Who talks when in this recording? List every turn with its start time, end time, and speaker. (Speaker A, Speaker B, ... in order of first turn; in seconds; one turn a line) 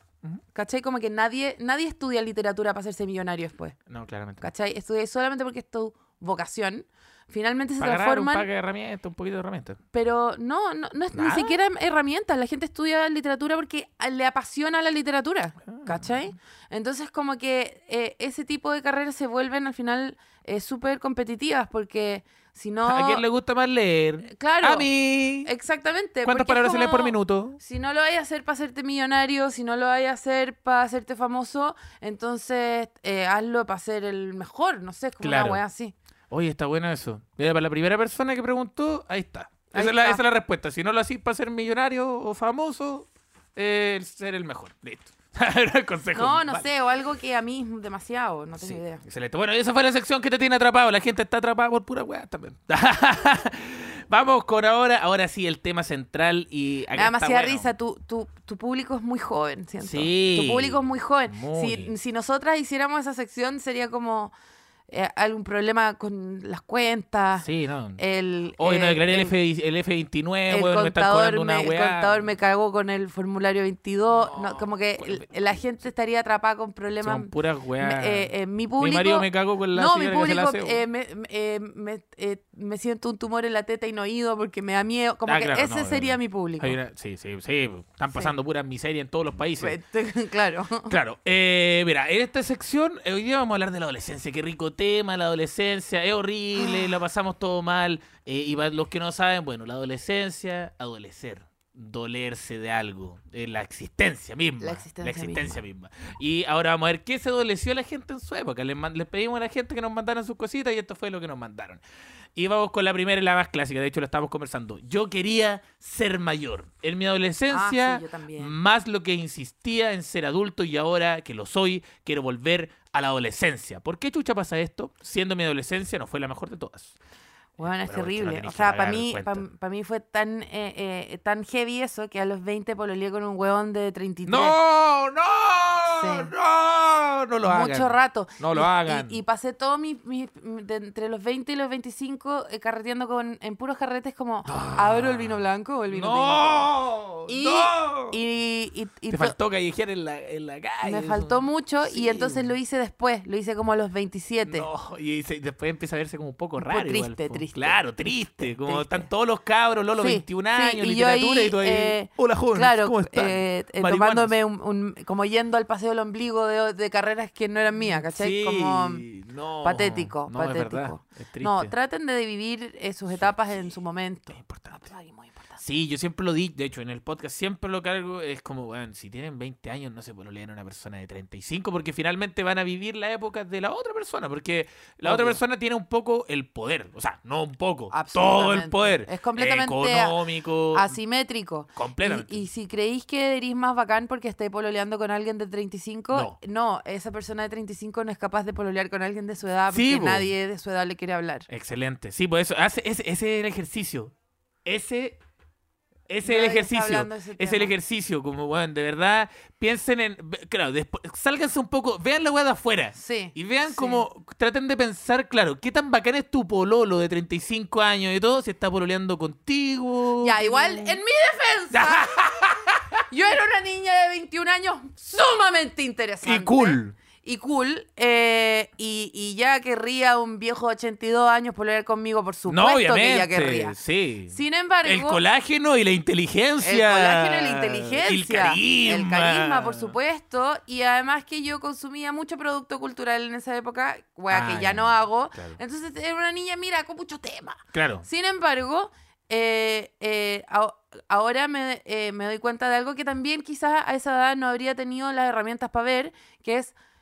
Speaker A: 0.5-3.8
Speaker B: 3.9-4.5
Speaker A: 4.4-8.5
Speaker B: 7.8-9.8
Speaker A: 9.9-23.2
Speaker B: 11.1-11.6
Speaker B: 15.7-16.2
Speaker B: 22.8-25.5
Speaker A: 24.2-24.9
Speaker A: 25.4-35.9
Speaker B: 26.2-27.6
Speaker B: 35.2-35.6
Speaker B: 36.3-46.7
Speaker A: 39.7-40.2
Speaker A: 46.1-49.0
Speaker B: 48.5-57.7
Speaker A: 56.9-64.3
Speaker B: 59.8-61.9
Speaker A: 64.9-69.3
Speaker B: 67.4-68.0
Speaker B: 68.6-72.3
Speaker A: 70.5-86.8
Speaker B: 74.1-75.5
Speaker B: 77.0-80.8
Speaker B: 85.2-89.8
Speaker A: 89.6-91.0
Speaker B: 90.9-111.8
Speaker A: 104.6-105.5
Speaker B: 112.3-127.0
Speaker A: 117.5-118.5
Speaker A: 127.6-134.6
Speaker B: 127.6-129.4
Speaker B: 134.3-139.2
Speaker A: 135.8-136.3
Speaker A: 137.4-146.7
Speaker B: 144.5-145.4
Speaker B: 145.9-148.2
Speaker A: 147.2-149.3
Speaker B: 149.1-152.5
Speaker A: 150.8-154.7
Speaker B: 154.4-164.3
Speaker A: 156.6-159.1
Speaker A: 160.0-169.1
Speaker B: 167.8-171.7
Speaker A: 169.6-175.6
Speaker B: 173.1-173.7
Speaker B: 174.3-174.9
Speaker B: 175.6-191.0
Speaker A: 185.0-185.4
Speaker A: 187.9-201.5
Speaker B: 191.8-192.4
Speaker B: 196.1-196.4
Speaker B: 199.7-200.3
Speaker B: 201.5-204.1
Speaker B: 204.6-205.2
Speaker B: 206.1-221.0
Speaker A: 206.2-207.7
Speaker A: 212.9-214.0
Speaker A: 220.2-222.2
Speaker B: 221.7-223.0
Speaker A: 223.1-233.8
Speaker B: 226.2-226.9
Speaker B: 232.5-239.9
Speaker A: 234.3-235.2
Speaker A: 236.6-256.8
Speaker B: 244.3-245.6
Speaker B: 247.7-248.1